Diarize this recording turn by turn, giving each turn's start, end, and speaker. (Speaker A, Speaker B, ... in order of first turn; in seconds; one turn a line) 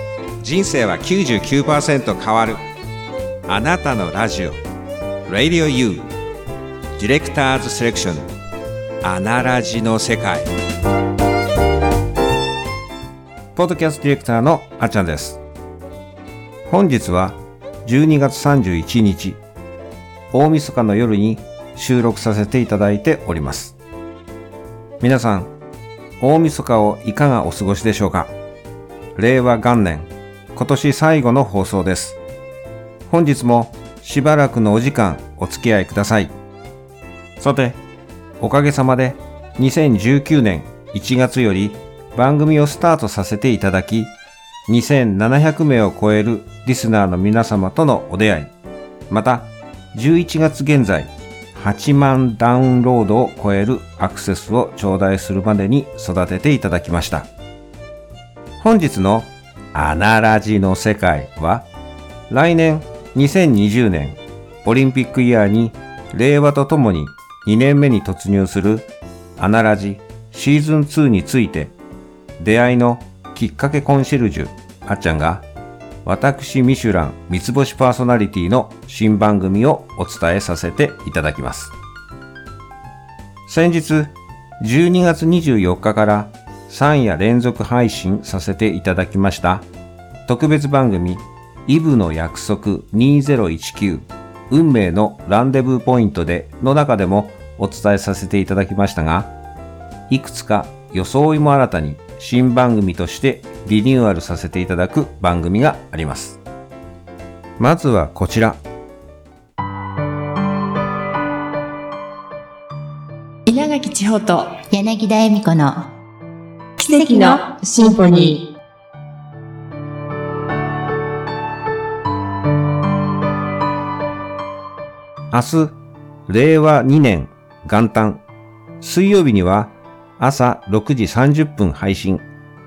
Speaker A: 0.4-2.6
Speaker A: 3.5-4.6
Speaker A: 5.3-6.1
Speaker A: 7.0-8.3
Speaker A: 9.0-10.5
Speaker A: 13.5-15.4
Speaker A: 16.7-19.4
Speaker A: 20.3-23.8
Speaker A: 25.0-25.5
Speaker A: 26.2-28.3
Speaker A: 29.1-32.2
Speaker A: 33.1-36.3
Speaker A: 37.4-37.8
Speaker A: 38.4-44.1
Speaker A: 44.7-48.5
Speaker A: 49.1-57.3
Speaker A: 58.6-61.7
Speaker A: 62.3-71.8
Speaker A: 72.4-75.5
Speaker A: 76.0-81.7
Speaker A: 83.5-89.7
Speaker A: 90.2-99.3
Speaker A: 100.1-106.4
Speaker A: 107.6-108.6
Speaker B: 113.5-114.6
Speaker C: 114.6-115.9
Speaker B: 116.8-118.4
Speaker C: 116.9-117.9
Speaker A: 125.3-128.2
Speaker A: 128.8-132.2